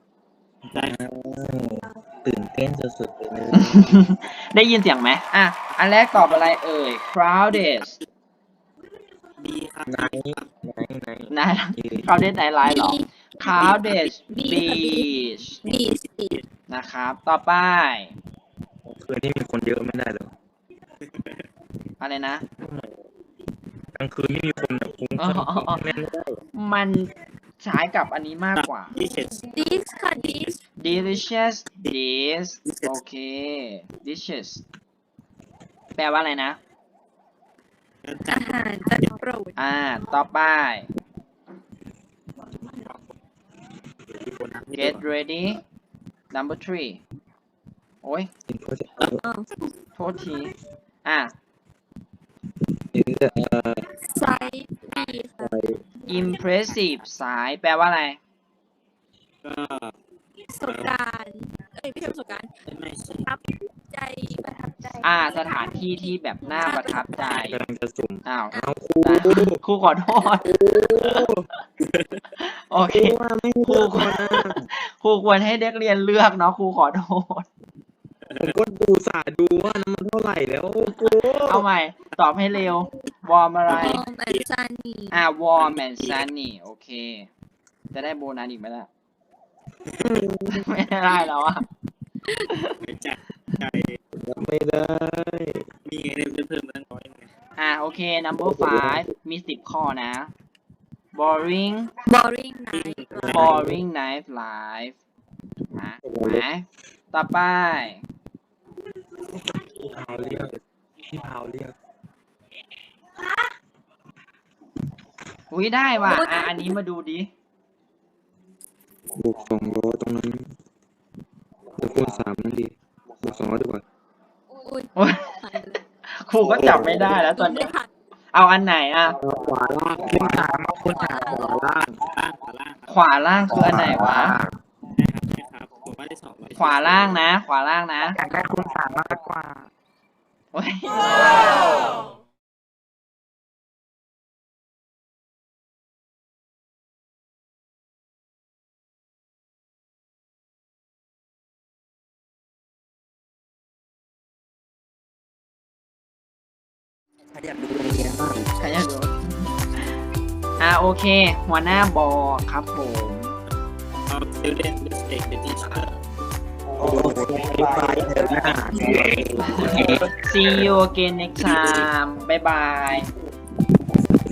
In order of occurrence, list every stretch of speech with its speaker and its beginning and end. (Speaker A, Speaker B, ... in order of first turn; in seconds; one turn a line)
Speaker A: 0.7-4.0
Speaker B: 3.5-8.0
Speaker C: 9.4-10.5
Speaker A: 9.9-12.1
Speaker B: 11.3-15.6
Speaker D: 12.6-16.4
Speaker B: 16.7-18.1
Speaker A: 18.9-20.3
Speaker C: 21.0-21.4
Speaker B: 22.0-22.4
Speaker A: 22.5-23.0
Speaker A: 23.9-26.4
Speaker B: 25.2-29.0
Speaker C: 28.6-29.5
Speaker D: 29.4-30.6
Speaker B: 30.8-34.6
Speaker C: 32.6-33.0
Speaker B: 36.0-36.6
Speaker C: 38.0-39.1
Speaker D: 38.3-39.5
Speaker B: 39.6-40.9
Speaker C: 44.2-45.0
Speaker B: 44.7-45.6
Speaker B: 46.3-47.0
Speaker B: 48.0-48.3
Speaker A: 48.5-49.2
Speaker D: 49.2-49.5
Speaker B: 50.0-50.5
Speaker B: 51.0-51.3
Speaker A: 52.9-53.9
Speaker D: 54.1-56.4
Speaker A: 55.4-55.8
Speaker B: 56.1-58.2
Speaker C: 59.4-60.0
Speaker D: 60.5-62.5
Speaker C: 60.6-61.0
Speaker C: 62.6-63.3
Speaker D: 63.2-67.5
Speaker B: 65.0-67.6
Speaker A: 67.3-69.6
Speaker B: 68.2-71.3
Speaker A: 70.5-71.5
Speaker C: 71.8-72.3
Speaker B: 72.4-77.5
Speaker A: 72.9-74.6
Speaker C: 78.3-78.6
Speaker A: 78.4-81.6
Speaker B: 81.4-84.0
Speaker C: 83.7-84.4
Speaker D: 83.7-85.2
Speaker B: 85.1-87.3
Speaker C: 85.6-86.3
Speaker B: 87.9-88.9
Speaker A: 89.9-90.7
Speaker B: 90.5-91.6
Speaker C: 92.8-94.0
Speaker A: 94.1-95.7
Speaker C: 95.8-97.3
Speaker B: 97.6-100.3
Speaker A: 98.4-99.0
Speaker B: 101.1-101.9
Speaker D: 102.1-103.5
Speaker C: 102.7-103.5
Speaker A: 103.3-103.8
Speaker B: 103.3-105.0
Speaker B: 105.7-108.0
Speaker A: 106.0-106.4
Speaker A: 109.5-111.7
Speaker B: 115.5-117.3
Speaker D: 116.0-116.8
Speaker A: 119.1-120.5
Speaker A: 121.8-123.8
Speaker D: 124.6-125.8
Speaker B: 125.0-125.4
Speaker B: 126.0-127.7
Speaker A: 126.6-127.2
Speaker D: 127.3-127.9
Speaker B: 128.3-129.2
Speaker A: 129.2-132.0
Speaker C: 130.1-130.4
Speaker C: 132.0-132.9
Speaker B: 132.9-134.4
Speaker A: 133.6-134.6
Speaker C: 134.8-137.2
Speaker B: 136.6-138.2
Speaker A: 138.1-139.7
Speaker B: 140.5-141.8
Speaker A: 157.3-158.5
Speaker B: 158.6-159.5
Speaker B: 160.6-163.3
Speaker C: 164.1-165.9
Speaker A: 166.8-170.7
Speaker C: 166.8-167.2
Speaker B: 169.6-173.1
Speaker C: 169.8-170.1
Speaker A: 171.4-171.8